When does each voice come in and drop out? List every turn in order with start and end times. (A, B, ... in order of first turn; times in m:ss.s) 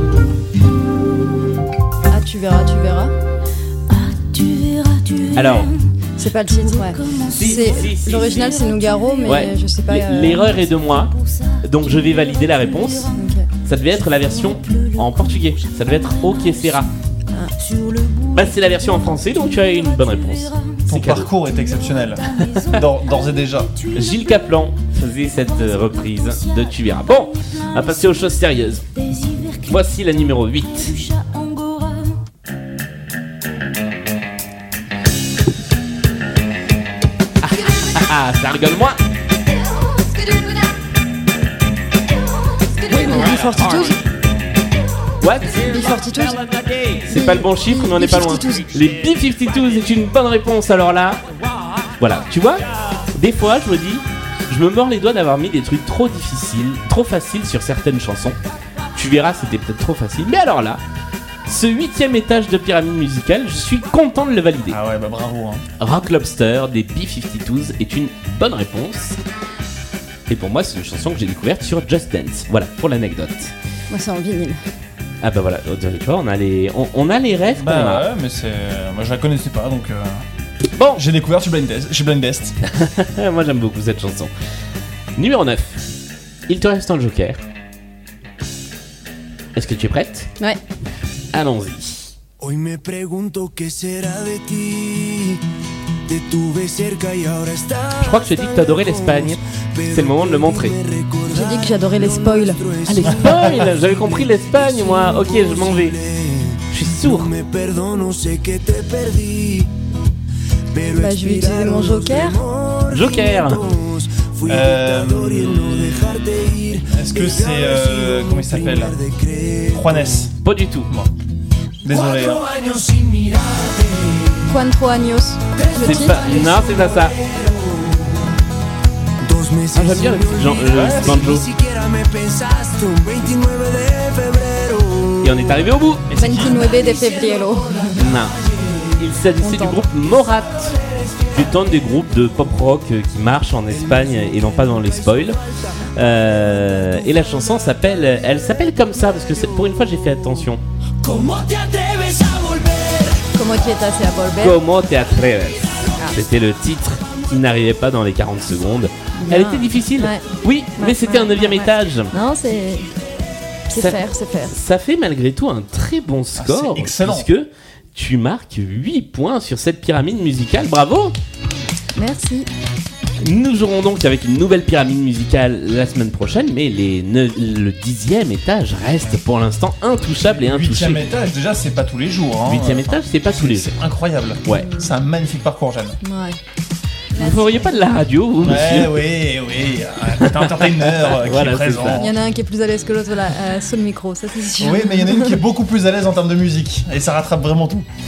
0:02.1-0:03.1 A
0:03.9-0:05.7 B
0:05.3-0:05.7 C
0:06.2-0:10.6 A
0:06.8-0:09.4 B
0:07.3-0:08.6 C
0:09.2-0:16.9 C
0:11.2-0:11.6 B
0:13.1-0:13.5 A
0:14.6-0:15.0 B
0:17.6-0:19.5 B
0:18.3-0:21.3 C
0:20.9-0:23.8 D
0:22.2-0:22.9 B
0:23.8-0:24.1 B
0:23.9-0:31.1 C
0:25.8-0:26.4 B
0:29.1-0:29.7 B
0:30.8-0:32.2 B
0:37.4-0:39.0 C
0:42.8-0:44.0 A
0:42.9-0:44.1 C
0:45.2-0:51.2 C
0:45.5-0:46.4 A
0:47.0-0:48.7 A
0:52.0-0:58.4 C
0:58.9-1:00.8 C
1:01.5-1:04.8 C
1:04.7-1:05.6 D
1:05.8-1:09.2 C
1:10.3-1:13.5 C
1:13.9-1:14.6 A
1:15.2-1:18.1 C
1:17.6-1:20.2 D
1:20.8-1:21.0 C
1:20.9-1:22.6 D
1:22.6-1:24.3 C
1:25.2-1:25.8 C
1:26.5-1:27.4 C
1:29.5-1:30.3 C
1:31.3-1:32.1 C
1:32.4-1:35.4 E
1:36.0-1:49.7 E
1:38.0-1:40.8 C
1:41.3-1:42.6 A
1:42.8-1:46.0 C
1:46.7-1:47.4 C
1:50.7-2:00.0 E
1:50.9-1:52.4 A
1:52.9-1:53.6 C
1:54.5-1:56.2 D
1:56.9-1:59.0 D
1:59.7-2:00.3 D
2:00.4-2:00.9 C
2:01.8-2:02.5 D
2:01.9-2:04.4 E
2:04.5-2:06.3 A
2:05.6-2:08.2 E
2:05.8-2:07.2 C
2:09.2-2:15.4 E
2:09.7-2:11.5 C
2:10.7-2:11.3 D
2:15.2-2:16.1 C
2:16.1-2:16.7 D
2:16.2-2:18.0 A
2:16.5-2:18.3 E
2:18.0-2:18.4 C
2:19.0-2:25.4 C
2:19.4-2:19.8 A
2:23.7-2:25.4 E
2:25.9-2:30.6 C
2:26.6-2:27.0 E
2:31.0-2:33.3 E
2:33.3-2:34.6 A
2:34.4-2:42.1 C
2:39.1-2:40.2 A
2:40.8-2:42.8 A
2:43.7-2:44.6 A
2:43.7-2:51.1 C
2:46.4-2:47.3 D
2:51.9-2:52.5 A
2:53.2-3:01.0 C
3:00.3-3:06.0 D
3:02.4-3:03.8 C
3:04.4-3:04.7 C
3:04.5-3:04.9 A
3:06.0-3:06.4 A
3:07.1-3:07.6 A
3:07.2-3:09.0 C
3:08.4-3:12.1 D
3:10.2-3:12.1 C
3:11.9-3:15.4 A
3:14.6-3:17.8 D